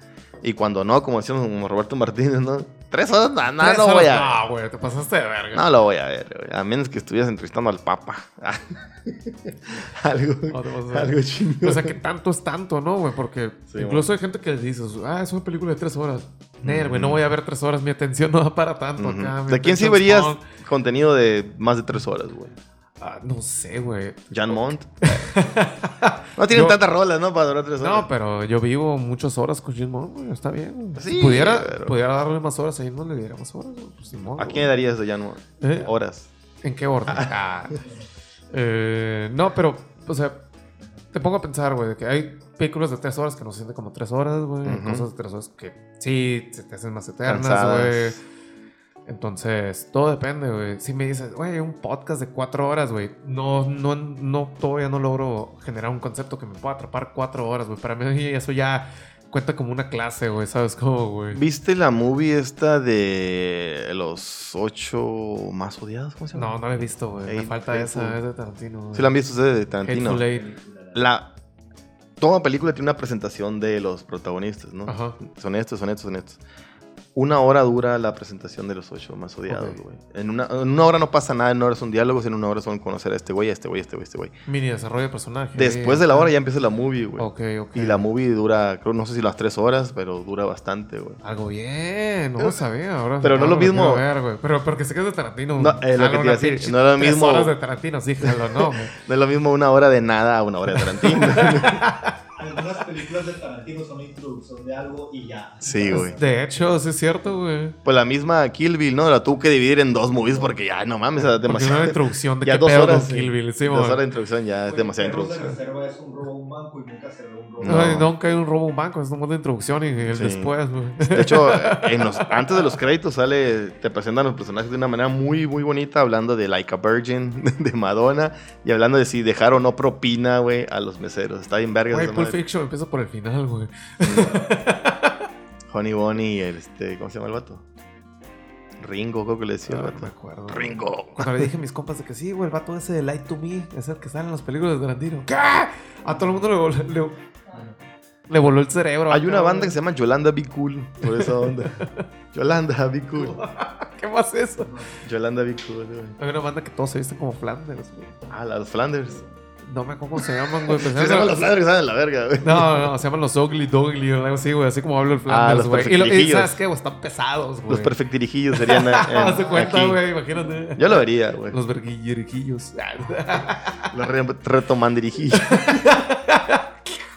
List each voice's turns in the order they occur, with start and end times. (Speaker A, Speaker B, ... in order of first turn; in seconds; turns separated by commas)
Speaker A: 0.4-4.4, Speaker B: 3.6-5.6, Speaker A: 5.5-11.9, Speaker B: 10.5-20.4, Speaker A: 13.7-14.1, Speaker A: 16.6-17.2, Speaker A: 19.0-22.6, Speaker B: 23.0-26.8, Speaker A: 24.3-25.2, Speaker A: 26.4-28.1, Speaker B: 27.8-34.7, Speaker A: 30.9-31.9, Speaker A: 34.4-36.3, Speaker B: 35.6-35.9, Speaker B: 36.6-37.8, Speaker A: 37.0-37.3, Speaker B: 38.5-40.4, Speaker B: 41.1-48.2, Speaker A: 44.6-45.1, Speaker A: 47.2-48.2, Speaker B: 49.0-61.4, Speaker A: 61.3-66.6, Speaker B: 66.3-69.1, Speaker A: 67.2-68.2, Speaker A: 68.9-70.2, Speaker B: 69.8-70.5, Speaker C: 70.1-71.0, Speaker A: 70.9-71.3, Speaker A: 72.2-76.4, Speaker B: 74.8-75.2, Speaker A: 77.1-84.3, Speaker B: 79.5-79.8, Speaker B: 84.5-86.3, Speaker A: 85.6-91.2, Speaker B: 87.2-88.1, Speaker B: 91.2-98.9, Speaker A: 93.2-94.0, Speaker A: 95.6-97.5, Speaker A: 98.2-101.8, Speaker B: 100.8-102.1, Speaker C: 102.4-106.4, Speaker A: 105.6-106.2, Speaker B: 105.9-107.8, Speaker A: 107.8-115.6, Speaker C: 110.2-110.5, Speaker B: 111.4-114.0, Speaker C: 114.7-118.0, Speaker A: 117.6-118.1, Speaker B: 117.7-122.5, Speaker A: 120.1-132.4, Speaker B: 131.9-135.2, Speaker A: 134.0-134.4, Speaker A: 135.7-137.6, Speaker A: 138.8-141.5, Speaker B: 139.6-147.2, Speaker B: 148.3-149.8, Speaker A: 149.1-151.8, Speaker B: 151.0-152.1, Speaker A: 152.3-153.4, Speaker B: 153.1-154.8, Speaker C: 154.6-154.9, Speaker A: 155.0-156.2, Speaker B: 156.2-158.1, Speaker A: 158.3-159.2, Speaker B: 159.6-161.4, Speaker A: 160.6-162.9, Speaker B: 162.4-167.9, Speaker A: 165.3-166.6, Speaker A: 167.7-170.0, Speaker B: 168.5-173.9, Speaker A: 170.8-171.6, Speaker A: 173.9-175.9, Speaker B: 175.4-176.9